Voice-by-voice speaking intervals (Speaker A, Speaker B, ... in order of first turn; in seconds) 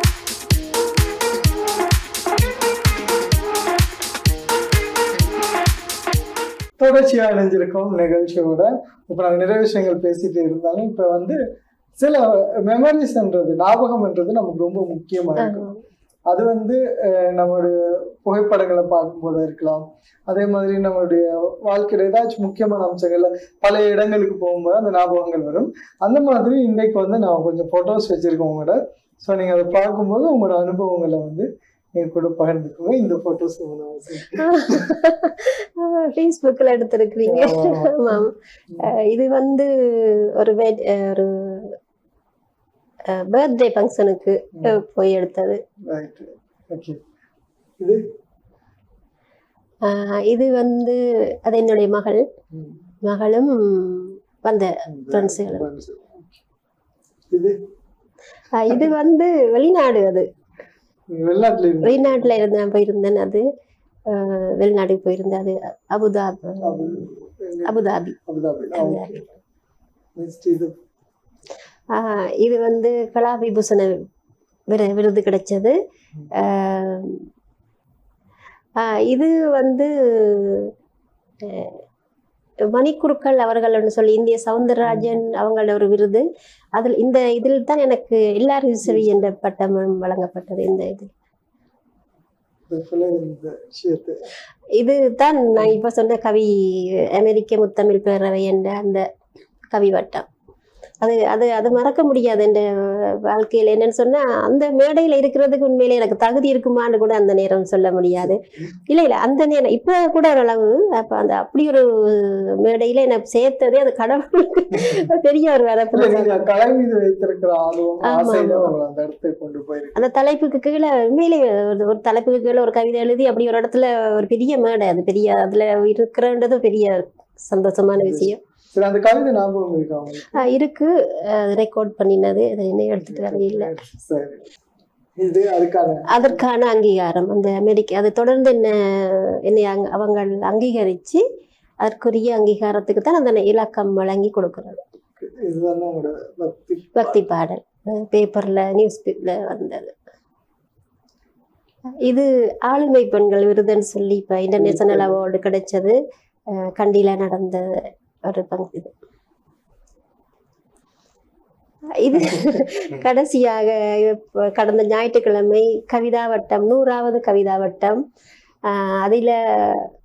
Speaker A: 6.8-11.4, 12.0-15.7, 16.3-34.9, 37.2-38.9, 45.9-47.0, 52.5-52.8, 54.9-56.4, 61.1-62.3, 66.6-69.4, 70.2-70.7, 88.8-89.2, 92.7-94.2, 108.2-108.7, 114.7-115.1, 115.9-120.1, 128.0-130.4, 133.0-134.5, 135.2-136.4, 145.2-147.2, 154.6-155.1
Speaker B: 15.4-15.8, 34.4-38.3, 38.8-41.8, 43.1-45.6, 49.8-52.2, 53.0-55.6, 58.5-60.2, 61.8-63.4, 64.1-67.0, 67.6-68.2, 68.7-69.1, 71.9-74.0, 74.7-75.8, 76.3-77.2, 78.8-80.7, 81.4-81.7, 82.7-86.2, 86.8-91.1, 94.8-96.5, 97.2-99.0, 99.7-100.3, 101.0-116.4, 118.0-118.7, 120.0-128.4, 130.3-133.7, 136.1-141.2, 141.8-144.8, 146.9-149.9, 152.0-155.9, 156.6-158.9, 162.0-168.0, 168.7-169.9